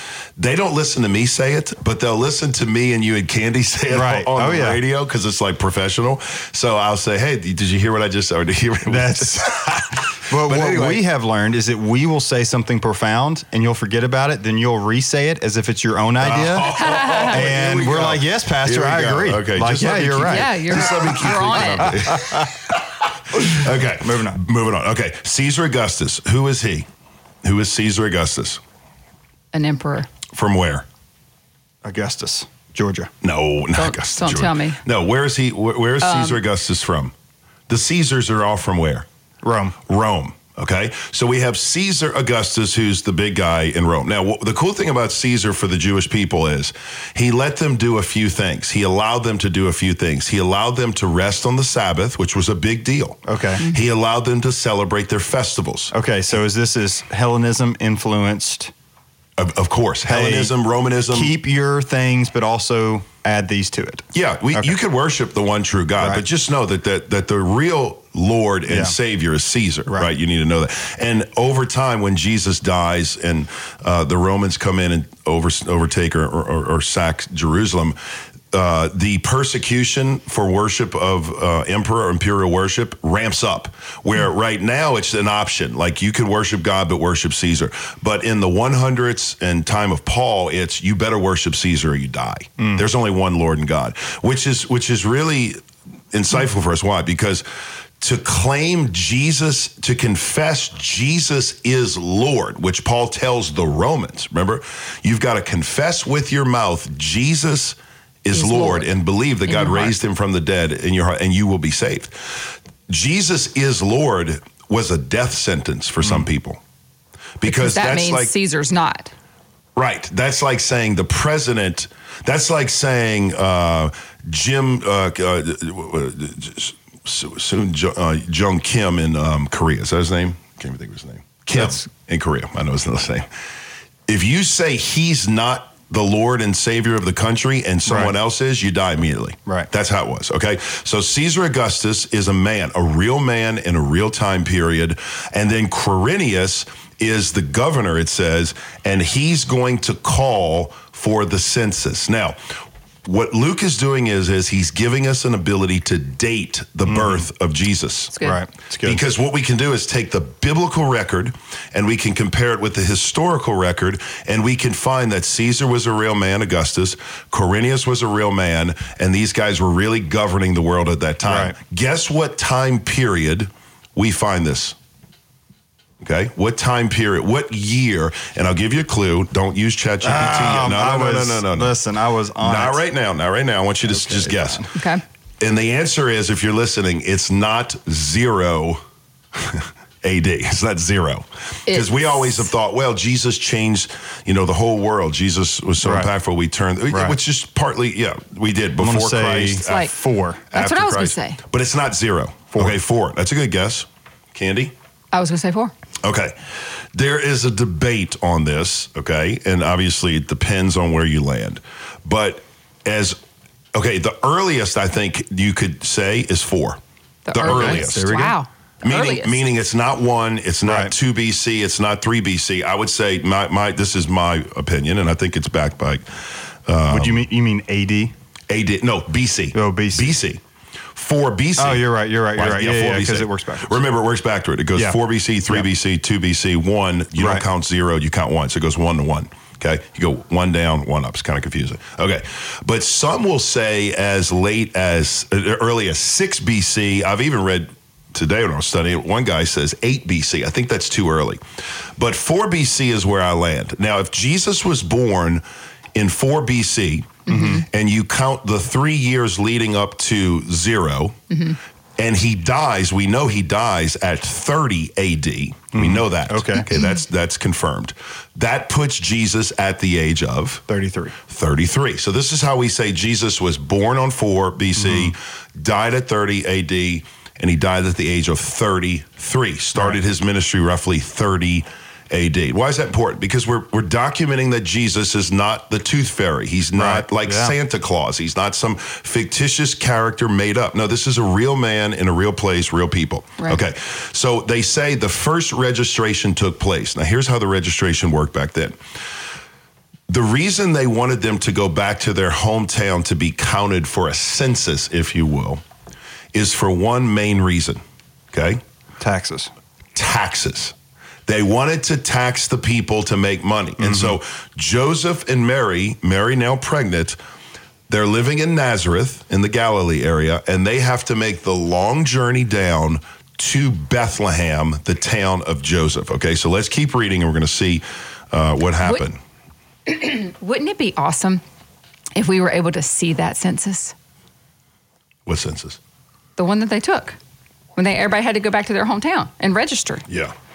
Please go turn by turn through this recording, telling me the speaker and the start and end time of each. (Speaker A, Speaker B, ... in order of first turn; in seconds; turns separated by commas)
Speaker A: 0.4-11.0, Speaker B: 3.9-4.8, Speaker B: 8.8-20.8, Speaker A: 16.2-26.9, Speaker C: 16.6-17.5, Speaker C: 19.8-22.2, Speaker B: 21.7-22.5, Speaker B: 23.4-24.4, Speaker A: 27.4-28.6, Speaker C: 29.5-30.1, Speaker A: 30.3-30.9, Speaker B: 31.8-33.1, Speaker A: 33.2-37.1, Speaker C: 33.8-34.8, Speaker C: 36.0-36.4, Speaker A: 37.7-39.1, Speaker B: 39.4-39.8, Speaker A: 39.9-55.9, Speaker B: 53.2-53.6, Speaker B: 55.9-58.7, Speaker A: 59.4-61.3, Speaker B: 60.1-60.5, Speaker B: 61.1-64.7, Speaker A: 64.1-78.0, Speaker B: 66.0-66.2, Speaker B: 68.7-69.0, Speaker A: 78.5-95.6, Speaker B: 92.6-92.8, Speaker A: 96.1-97.4, Speaker A: 98.0-116.6, Speaker C: 108.3-108.9, Speaker C: 109.5-109.9, Speaker A: 117.4-118.3, Speaker C: 117.4-119.1, Speaker A: 119.8-133.3, Speaker B: 131.5-131.8, Speaker A: 134.1-152.4, Speaker B: 137.8-138.1, Speaker A: 153.0-158.2, Speaker B: 156.9-157.2, Speaker C: 158.1-158.4, Speaker B: 158.2-159.0, Speaker A: 158.8-174.8, Speaker B: 171.2-171.6, Speaker A: 176.0-181.8, Speaker B: 180.0-182.8, Speaker A: 182.4-184.7, Speaker B: 183.8-184.7, Speaker C: 184.7-185.0, Speaker A: 185.4-188.8, Speaker A: 189.3-199.9, Speaker C: 191.7-192.4, Speaker B: 195.8-196.1, Speaker B: 196.9-197.2, Speaker B: 198.8-200.5, Speaker C: 199.6-199.9, Speaker C: 200.5-201.4, Speaker A: 200.5-204.7, Speaker C: 205.1-205.7, Speaker A: 206.0-206.3, Speaker A: 206.9-213.2, Speaker A: 213.7-216.8, Speaker C: 217.2-219.4, Speaker A: 217.3-218.2, Speaker B: 217.4-218.3, Speaker A: 218.8-227.3, Speaker B: 220.6-220.9, Speaker B: 226.9-228.1, Speaker A: 228.5-230.4, Speaker B: 229.5-230.1, Speaker A: 230.9-255.4, Speaker B: 231.6-233.8, Speaker B: 234.8-235.7, Speaker B: 237.2-237.4, Speaker A: 255.9-261.2, Speaker C: 257.3-257.6, Speaker B: 257.3-257.6, Speaker C: 261.3-261.6, Speaker A: 262.0-270.6, Speaker B: 265.7-266.7, Speaker B: 270.7-271.2, Speaker A: 271.3-298.8, Speaker B: 274.8-275.1, Speaker B: 286.8-287.5, Speaker A: 300.1-305.6, Speaker A: 306.3-307.8, Speaker A: 308.3-308.6, Speaker B: 309.0-309.5, Speaker A: 309.9-310.7, Speaker A: 311.2-317.2, Speaker B: 313.8-314.1, Speaker A: 317.9-329.2, Speaker C: 329.9-331.4, Speaker C: 332.1-333.9, Speaker A: 335.2-335.8, Speaker C: 336.4-337.2, Speaker C: 337.8-340.0, Speaker A: 340.1-340.3